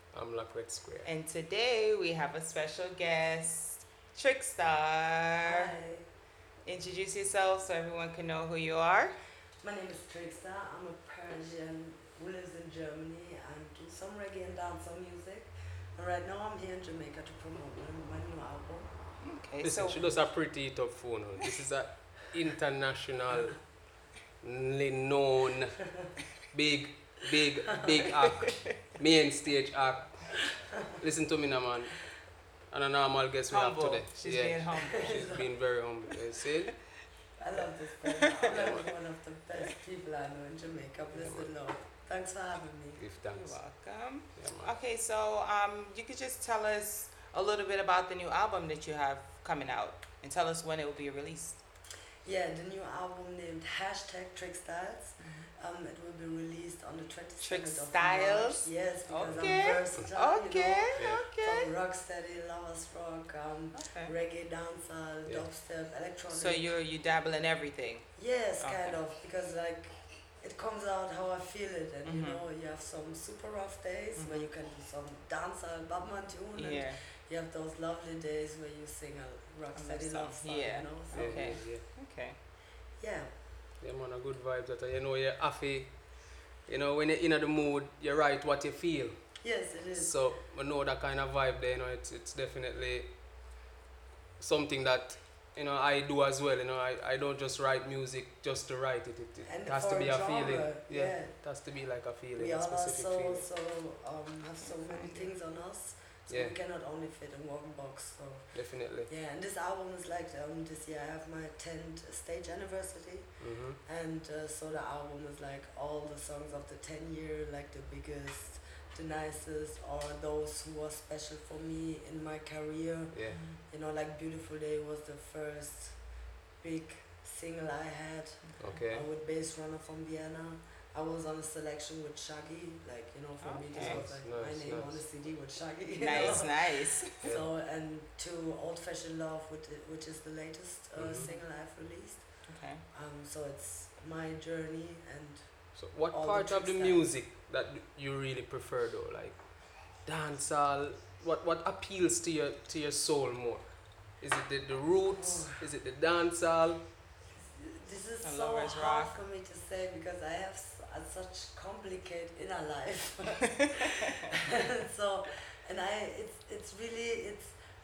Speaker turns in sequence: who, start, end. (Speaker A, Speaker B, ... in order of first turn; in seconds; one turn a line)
Speaker A: 0.1-1.1
Speaker B: 1.1-5.7
Speaker C: 5.4-6.1
Speaker B: 6.7-9.2
Speaker C: 9.6-18.9
Speaker B: 19.2-20.1
Speaker A: 19.6-23.7
Speaker A: 24.4-25.8
Speaker A: 26.5-32.1
Speaker B: 28.3-28.8
Speaker A: 32.7-36.7
Speaker B: 33.5-35.2
Speaker C: 35.0-35.5
Speaker C: 37.4-43.0
Speaker B: 38.2-38.5
Speaker A: 38.5-38.9
Speaker A: 41.2-41.5
Speaker A: 43.0-43.6
Speaker B: 43.3-51.6
Speaker A: 44.4-44.7
Speaker C: 52.2-66.7
Speaker B: 55.2-55.5
Speaker B: 57.4-61.7
Speaker A: 61.0-61.2
Speaker B: 63.7-64.1
Speaker B: 66.3-69.0
Speaker C: 68.2-81.6
Speaker B: 72.1-72.4
Speaker B: 74.2-74.5
Speaker B: 76.5-77.0
Speaker B: 79.7-82.4
Speaker A: 81.1-81.8
Speaker C: 83.0-83.3
Speaker A: 83.8-93.1
Speaker C: 89.4-90.2
Speaker A: 94.4-103.4
Speaker C: 99.5-101.4
Speaker C: 102.4-113.3
Speaker B: 104.6-105.3
Speaker A: 106.3-106.5
Speaker A: 108.5-109.1
Speaker A: 113.4-113.8
Speaker C: 113.8-126.0
Speaker A: 123.1-123.4
Speaker B: 123.3-123.6
Speaker C: 126.6-142.3
Speaker B: 128.4-128.8
Speaker A: 128.6-129.1
Speaker B: 133.4-134.1
Speaker A: 133.8-135.2
Speaker B: 136.0-137.1
Speaker A: 136.1-136.4
Speaker A: 141.0-141.3
Speaker B: 142.5-142.8
Speaker C: 142.9-147.1
Speaker A: 145.8-156.9
Speaker C: 155.2-155.6
Speaker C: 157.4-167.6
Speaker B: 158.2-159.2